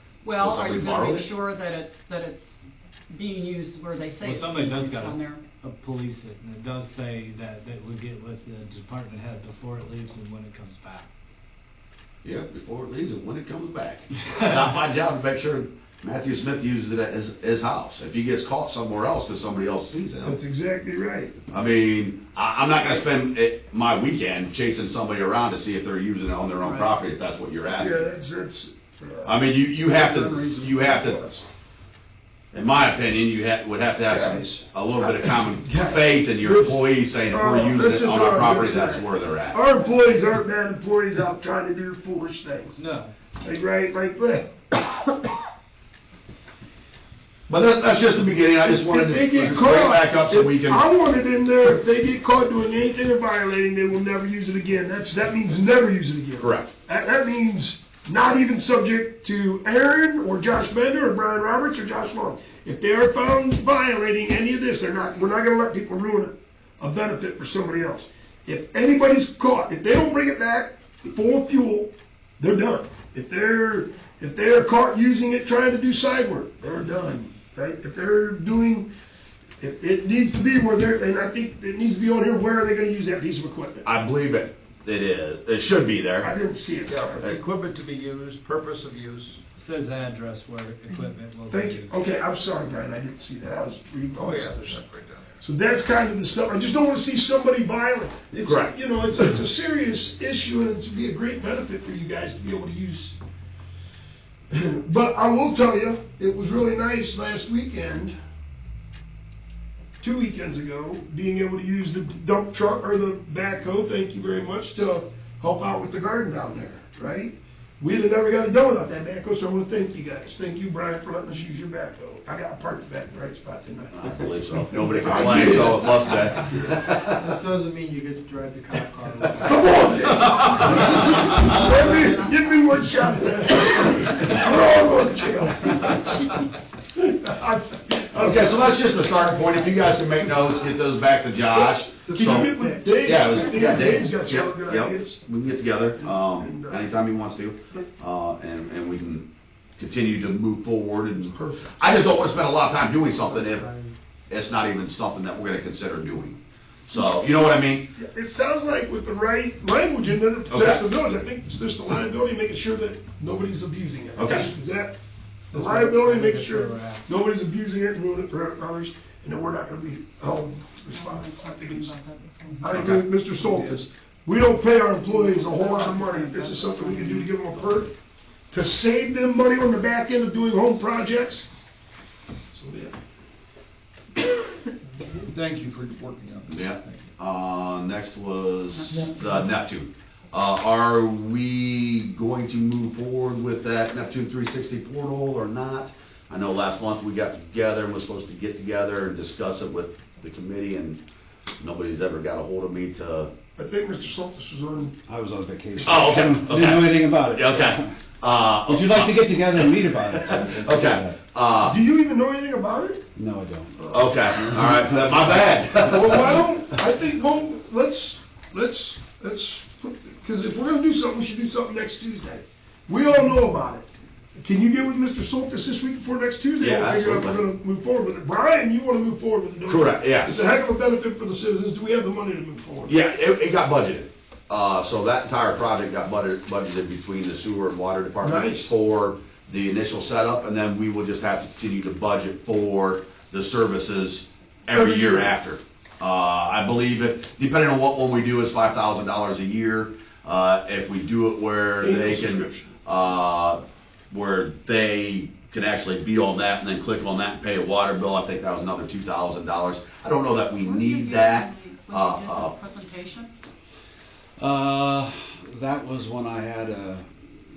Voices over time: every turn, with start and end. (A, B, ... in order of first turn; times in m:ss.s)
0:00.2-0:05.4 A
0:00.4-0:01.3 B
0:04.2-0:11.1 C
0:12.2-0:20.4 B
0:20.2-0:21.3 D
0:21.5-0:28.1 B
0:26.6-0:27.0 A
0:27.8-0:31.4 D
0:29.2-0:31.2 B
0:32.5-0:39.6 B
0:34.1-0:42.8 D
0:42.8-0:43.1 C
0:43.4-0:45.2 D
0:47.5-0:50.8 B
0:48.6-1:18.9 D
0:56.4-0:56.7 B
1:19.6-1:23.8 D
1:23.8-1:26.3 B
1:26.2-1:27.2 D
1:26.9-1:29.4 E
1:29.5-1:31.9 C
1:31.5-1:34.8 D
1:34.2-1:35.3 E
1:35.4-1:43.2 D
1:38.4-1:38.7 B
1:44.5-1:48.1 D
1:50.0-2:06.7 D
2:03.9-2:07.3 B
2:07.1-2:09.9 F
2:09.4-2:16.4 D
2:16.9-2:18.9 D
2:18.1-2:33.7 B
2:21.6-2:25.2 D
2:22.1-2:22.9 F
2:26.0-2:26.9 D
2:31.3-2:31.7 D
2:33.5-2:33.9 F
2:34.3-2:37.9 B
2:38.0-2:44.9 D
2:40.5-2:40.8 B
2:44.2-2:44.5 B
2:45.5-2:47.0 C
2:45.5-2:51.9 D
2:50.9-2:53.0 A
2:52.6-2:57.9 D
2:52.7-2:53.0 B
2:53.4-2:53.8 C
2:55.3-2:56.2 C
2:56.3-2:56.7 A
2:56.8-2:57.3 C
2:58.5-3:01.5 D
3:02.5-3:02.9 D
3:05.2-3:07.0 E
3:06.5-3:21.0 B
3:08.7-3:09.2 A
3:21.6-3:23.3 B
3:23.6-3:25.0 D
3:25.1-3:28.0 G
3:25.8-3:31.8 B
3:25.9-3:26.2 D
3:28.6-3:31.2 G
3:31.6-3:33.0 D
3:33.2-3:33.9 G
3:33.8-3:34.1 D
3:33.9-3:36.5 B
3:34.5-3:34.9 G
3:35.8-3:52.9 D
3:46.6-3:47.4 B
3:49.6-3:50.4 B
3:52.9-4:22.5 B
3:58.2-3:58.7 D
4:04.7-4:05.3 D
4:11.8-4:12.7 D
4:20.6-4:23.3 A
4:24.4-4:27.1 G